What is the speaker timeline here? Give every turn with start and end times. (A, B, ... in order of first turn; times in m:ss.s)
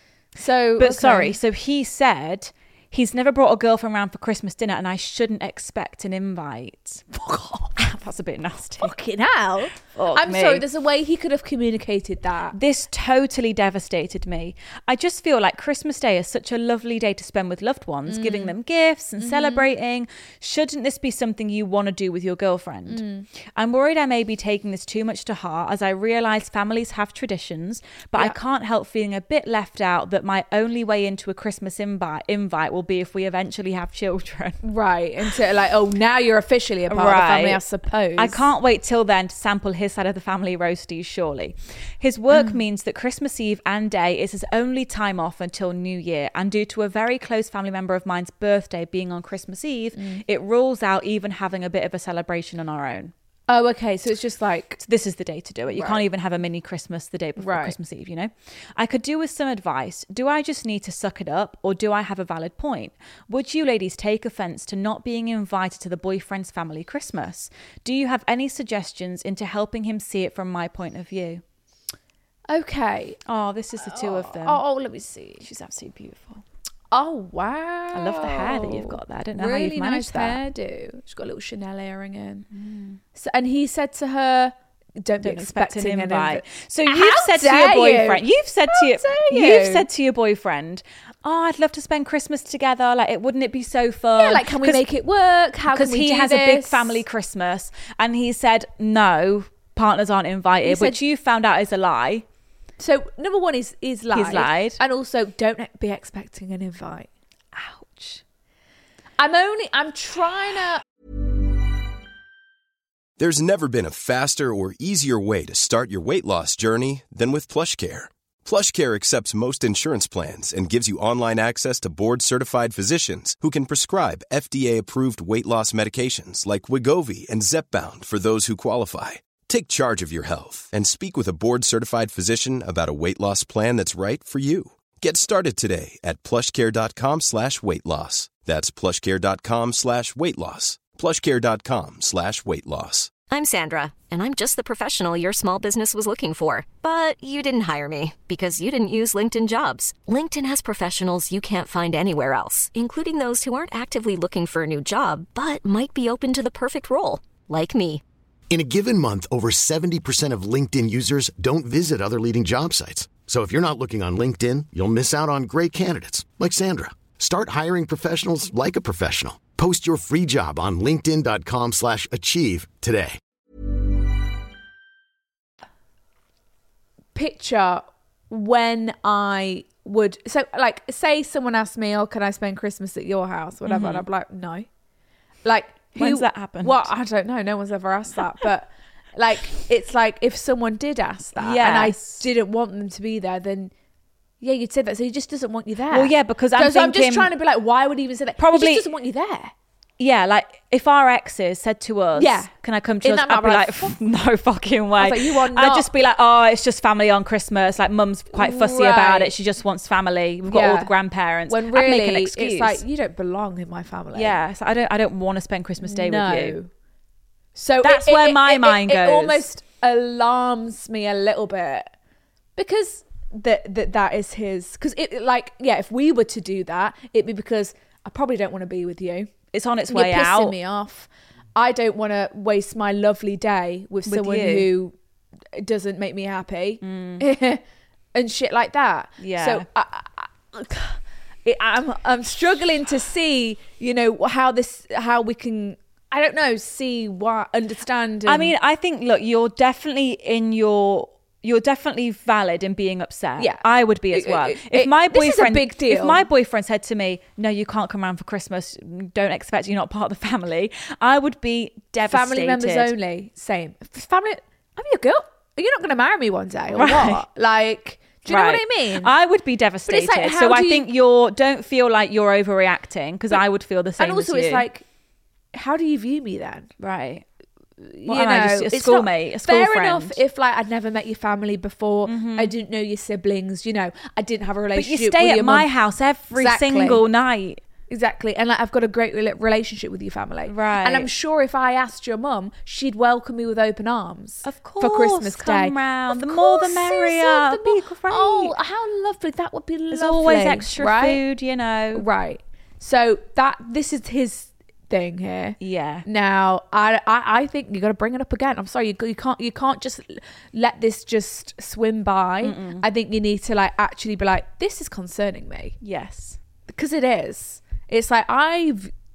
0:00.4-0:01.4 A
0:00.8-0:07.0 B
0:07.1-0:07.7 A
0:07.8-0:08.9 B
0:08.8-0:12.6 A
0:09.9-0:10.6 B
0:12.5-0:23.0 B
0:18.1-0:18.6 A
0:19.2-0:19.7 A
0:22.9-0:23.3 A
0:23.5-0:34.6 B
0:34.6-0:38.4 A
0:36.9-0:37.6 B
0:38.2-0:53.1 B
0:42.3-0:42.6 A
0:49.9-0:50.2 A
0:53.5-0:54.8 A
0:54.8-1:11.4 B
0:55.7-0:56.0 A
0:57.4-0:57.8 A
1:12.5-1:13.2 A
1:13.2-1:14.6 B
1:13.8-1:15.4 A
1:15.4-1:16.4 B
1:16.9-1:22.4 A
1:17.9-1:20.4 B
1:22.5-1:23.0 B
1:23.1-1:29.8 A
1:25.2-1:34.8 B
1:34.1-1:37.0 A
1:35.7-1:42.2 B
1:40.6-1:41.0 A
1:42.8-1:48.2 A
1:44.1-1:44.8 B
1:49.2-1:50.8 A
1:53.2-2:23.1 C
2:23.3-2:38.0 D
2:38.5-2:53.2 E
2:57.1-3:04.7 A
3:03.6-3:04.0 B
3:05.4-3:13.7 A
3:05.9-3:06.9 B
3:11.4-3:12.2 B
3:14.4-3:19.5 A
3:15.9-3:17.3 B
3:18.4-3:18.9 B
3:20.0-3:32.8 B
3:22.1-3:22.5 A
3:23.0-3:24.0 A
3:25.0-3:25.9 A
3:28.3-3:29.3 A
3:30.5-3:30.9 A
3:31.5-3:34.4 A
3:34.1-3:36.6 B
3:35.8-3:36.7 A
3:37.5-3:41.9 A
3:37.8-3:39.4 B
3:42.6-3:49.3 A
3:49.5-3:50.6 B
3:49.9-3:54.9 A
3:54.0-3:54.7 B
3:55.5-3:57.6 A
3:56.8-3:57.2 B
3:58.1-4:08.5 A
3:59.2-3:59.6 B
4:08.2-4:22.9 B
4:13.4-4:16.2 A
4:22.0-4:29.1 A
4:26.7-4:27.2 B
4:28.3-4:34.6 B
4:29.8-4:30.9 A
4:34.0-4:34.8 A
4:35.5-4:36.7 A
4:36.8-4:37.2 B
4:37.8-4:45.7 A
4:38.0-4:40.2 B
4:42.0-4:42.5 B
4:44.7-4:47.6 B
4:46.3-4:47.0 A
4:47.9-5:01.2 A
4:50.4-4:51.1 B
4:54.4-4:58.5 B
4:59.9-5:02.0 B
5:01.9-5:15.8 A
5:05.6-5:06.0 B
5:12.4-5:12.8 B
5:15.8-5:16.4 B
5:16.7-5:18.9 A